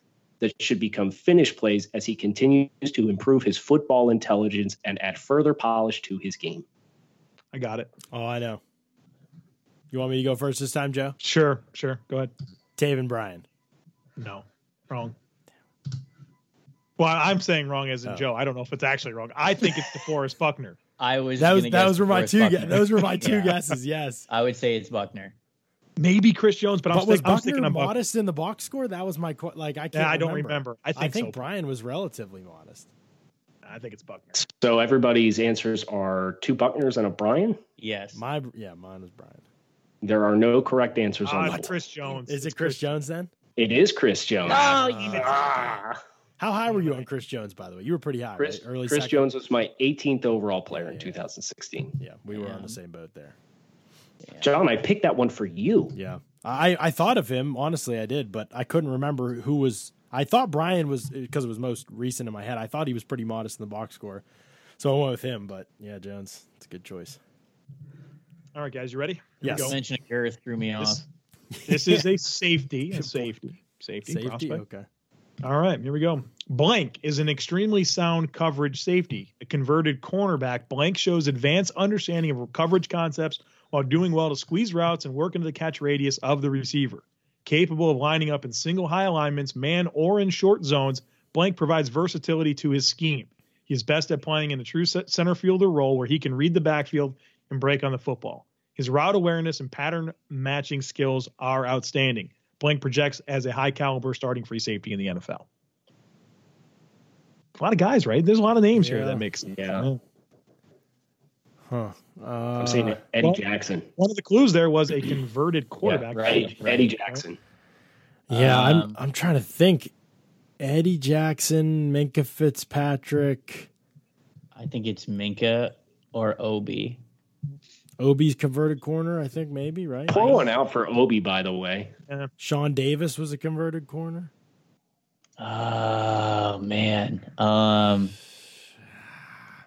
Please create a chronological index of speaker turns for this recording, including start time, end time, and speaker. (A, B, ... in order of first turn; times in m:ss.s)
0:00.4-0:06.7 A
0:07.5-0:07.9 B
0:08.1-0:08.6 C
0:09.9-0:11.2 C
0:11.2-0:12.3 B
0:12.8-0:13.4 C
0:14.2-0:15.2 B
0:17.0-0:20.8 B
0:21.0-0:23.6 D
0:21.4-0:24.3 C
0:24.3-0:25.3 D
0:26.0-0:28.0 B
0:26.9-0:32.9 C
0:29.9-0:31.4 B
0:33.6-0:34.4 B
0:34.4-0:37.6 A
0:37.8-0:38.2 D
0:38.2-0:39.4 C
0:40.0-0:41.7 A
0:41.2-0:42.8 B
0:42.3-0:43.3 C
0:43.6-0:46.0 A
0:44.5-0:45.5 D
0:44.6-0:45.4 C
0:46.4-0:49.3 C
0:48.4-0:52.0 A
0:50.7-0:51.2 C
0:52.0-0:53.4 C
0:52.3-0:52.8 D
0:54.4-0:56.0 A
0:55.9-1:04.2 C
1:04.8-1:07.2 C
1:08.6-1:09.8 B
1:09.4-1:09.8 C
1:09.5-1:11.0 D
1:11.6-1:12.0 C
1:11.7-1:14.6 B
1:12.9-1:13.4 C
1:14.0-1:14.9 C
1:15.4-1:45.5 B
1:47.6-1:50.0 B
1:48.7-1:49.2 C
1:49.5-1:49.9 A
1:51.7-1:53.0 C
1:52.6-1:53.9 A
1:54.0-1:57.2 B
1:55.8-1:57.4 A
1:56.1-1:56.9 D
1:58.3-1:59.9 C
1:58.3-1:59.0 D
2:00.6-2:03.7 C
2:04.6-2:07.0 D
2:08.0-2:10.4 C
2:10.1-2:11.9 A
2:12.4-2:14.3 C
2:15.4-2:18.1 D